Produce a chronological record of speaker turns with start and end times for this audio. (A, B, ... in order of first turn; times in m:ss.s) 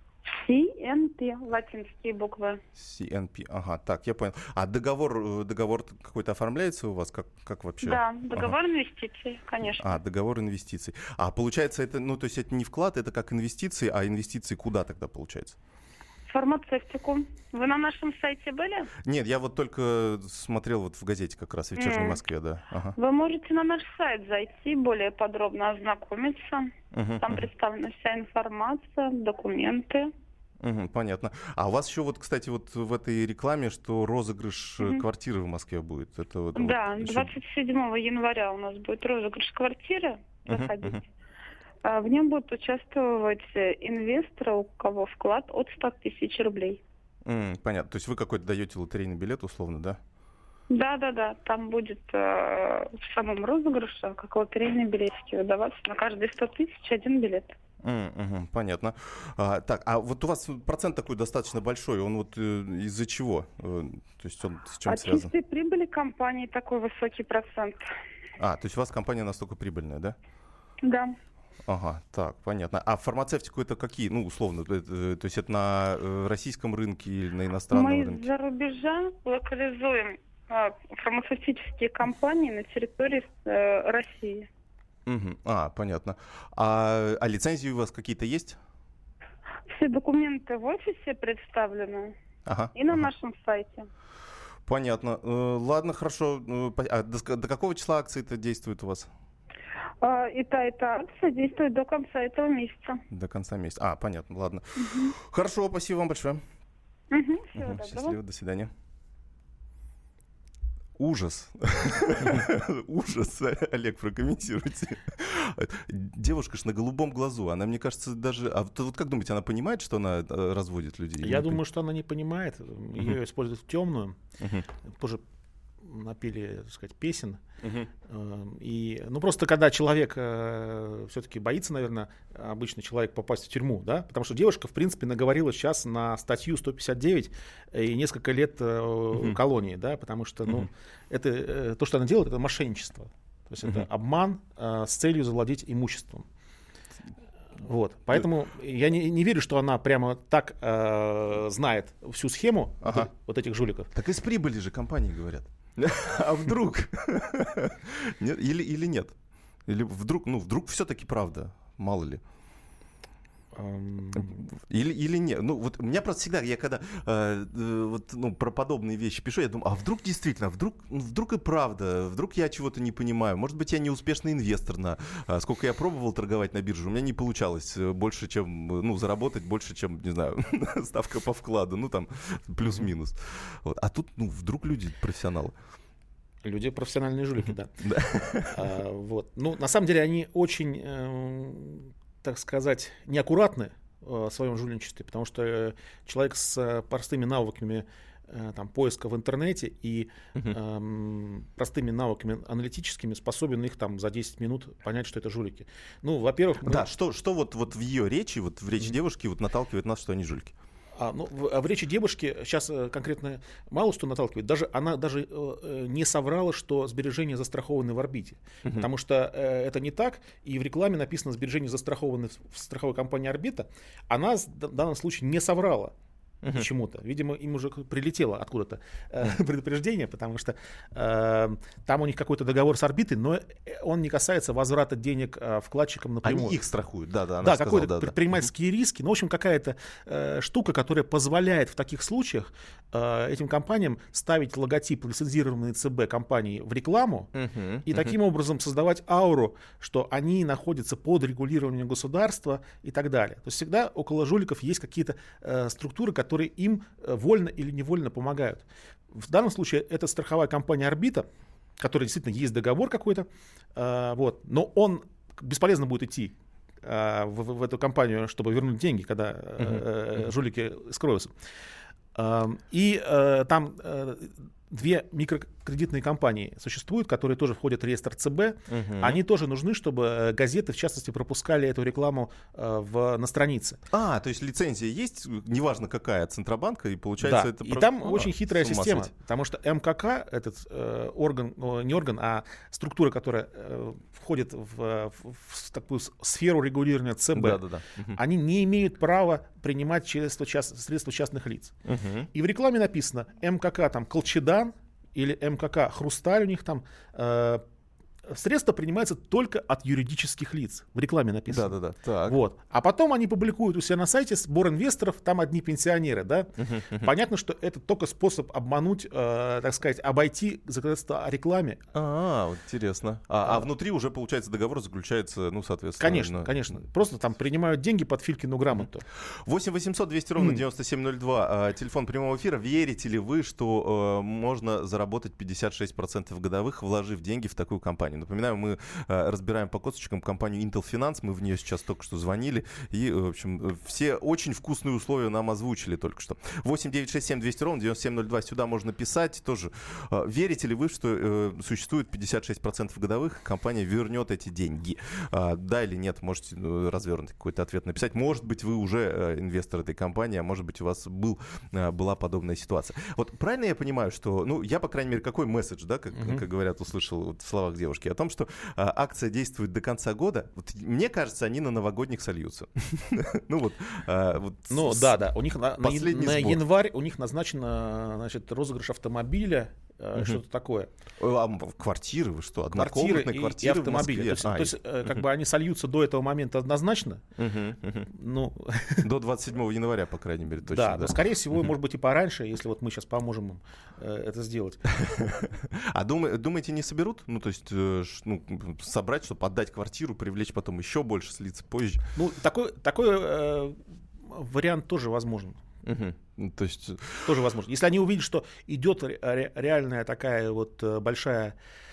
0:00.3-0:02.6 A
0:02.7-0:08.6 B
0:07.8-0:10.0 A
0:09.8-0:15.6 B
0:16.3-0:18.9 A
0:19.0-0:23.0 B
0:21.8-0:22.2 A
0:23.0-0:30.1 A
0:26.9-0:27.5 B
0:30.6-0:37.3 B
0:36.5-0:41.0 A
0:40.5-0:41.0 B
0:41.8-0:46.8 A
0:47.2-0:50.0 B
0:50.7-0:57.6 A
0:57.8-1:05.3 B
1:04.9-1:07.9 A
1:08.4-1:10.2 B
1:10.8-1:11.2 A
1:11.6-1:18.3 B
1:17.7-1:24.5 A
1:25.0-1:28.6 B
1:29.7-1:32.1 A
1:32.4-1:33.1 B
1:32.7-1:33.9 A
1:34.7-1:39.1 B
1:40.0-1:43.0 A
1:43.1-1:46.4 B
1:44.8-1:45.1 A
1:47.1-1:48.2 A
1:47.6-1:48.7 B
1:51.0-2:01.6 B
2:01.2-2:04.2 C
2:04.4-2:04.6 B
2:04.8-2:05.2 C
2:05.8-2:07.4 C
2:07.6-2:07.9 B
2:08.1-2:26.2 C
2:27.6-2:33.9 C
2:32.8-2:33.1 B
2:33.9-2:39.1 B
2:39.6-2:42.2 B
2:43.5-2:44.4 C
2:44.2-3:05.5 B
3:06.4-3:07.8 C
3:07.8-3:08.6 B
3:08.4-3:26.8 C
3:26.6-3:30.5 B
3:31.0-3:45.9 C
3:46.5-3:56.6 C
3:56.2-3:58.4 B
3:57.4-4:07.3 C
4:07.3-4:08.1 B
4:07.8-4:21.3 C
4:21.8-4:31.3 C
4:32.1-4:43.8 C
4:38.7-4:39.2 B
4:43.9-4:49.1 B
4:47.2-5:01.7 C
4:57.3-4:58.2 B
5:01.8-5:02.3 B
5:02.3-5:07.6 C
5:08.3-5:21.8 C
5:11.5-5:12.4 B
5:16.6-5:17.1 B
5:21.9-5:26.8 B
5:26.0-5:29.0 C
5:29.3-6:15.2 B
6:06.1-6:06.4 C
6:14.7-6:20.9 C
6:15.8-6:16.6 B
6:20.1-6:20.4 B
6:21.2-6:25.2 B
6:22.7-6:27.2 C
6:27.4-6:28.1 B
6:28.0-6:29.0 C
6:29.0-6:31.6 B
6:30.6-6:34.8 C
6:34.9-6:42.0 B
6:42.2-6:45.6 C
6:45.8-6:47.3 B
6:47.2-6:51.6 C